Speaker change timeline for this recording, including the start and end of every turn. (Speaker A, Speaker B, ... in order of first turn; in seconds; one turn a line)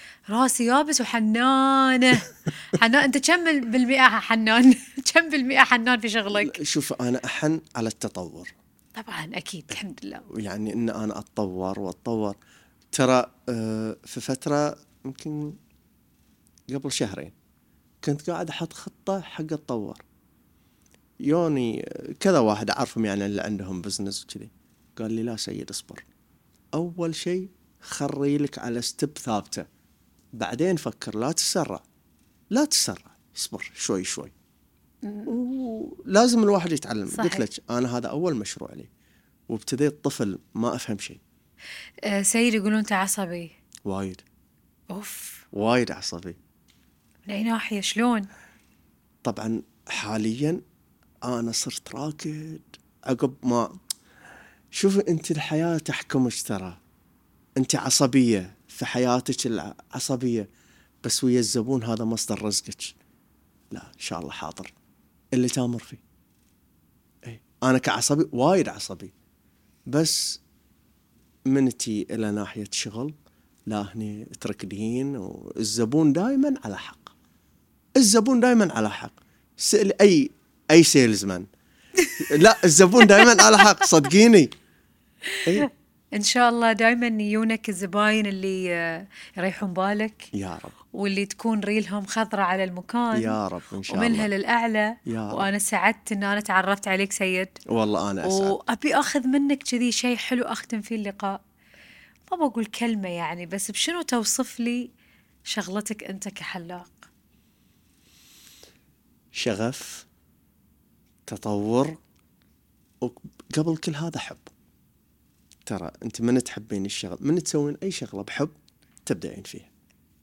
Speaker A: 0.3-6.5
Speaker B: 6.3-8.5
Speaker A: 9.0-10.2
Speaker B: 9.7-12.4
Speaker B: 12.9-15.6
Speaker B: 16.7-17.3
Speaker B: 18.0-20.0
Speaker B: 21.3-26.0
Speaker B: 26.8-29.7
Speaker B: 30.4-31.8
Speaker B: 32.5-34.3
Speaker A: 35.0-35.3
Speaker B: 35.3-38.9
Speaker A: 37.1-37.4
Speaker B: 39.5-41.2
Speaker A: 42.0-43.5
Speaker B: 43.9-44.2
Speaker A: 44.9-45.4
Speaker B: 45.5-46.4
Speaker A: 47.3-48.3
Speaker B: 49.2-50.6
Speaker B: 51.2-53.8
Speaker B: 54.7-56.8
Speaker B: 57.6-60.5
Speaker B: 61.0-63.0
Speaker B: 63.7-64.7
Speaker B: 65.3-66.0
Speaker B: 67.2-69.1
Speaker B: 69.9-70.4
Speaker B: 71.5-73.1
Speaker B: 73.7-77.1
Speaker B: 78.0-81.5
Speaker B: 82.2-84.5
Speaker A: 83.2-83.6
Speaker A: 85.3-90.3
Speaker B: 90.3-90.8
Speaker A: 90.9-93.4
Speaker B: 93.1-94.3
Speaker A: 93.9-97.5
Speaker B: 95.1-95.5
Speaker B: 97.7-98.6
Speaker A: 98.2-101.4
Speaker A: 102.3-104.9
Speaker A: 105.5-107.1
Speaker B: 109.3-110.1
Speaker B: 111.3-112.0
Speaker B: 113.0-114.5
Speaker B: 115.7-118.5
Speaker B: 119.1-119.7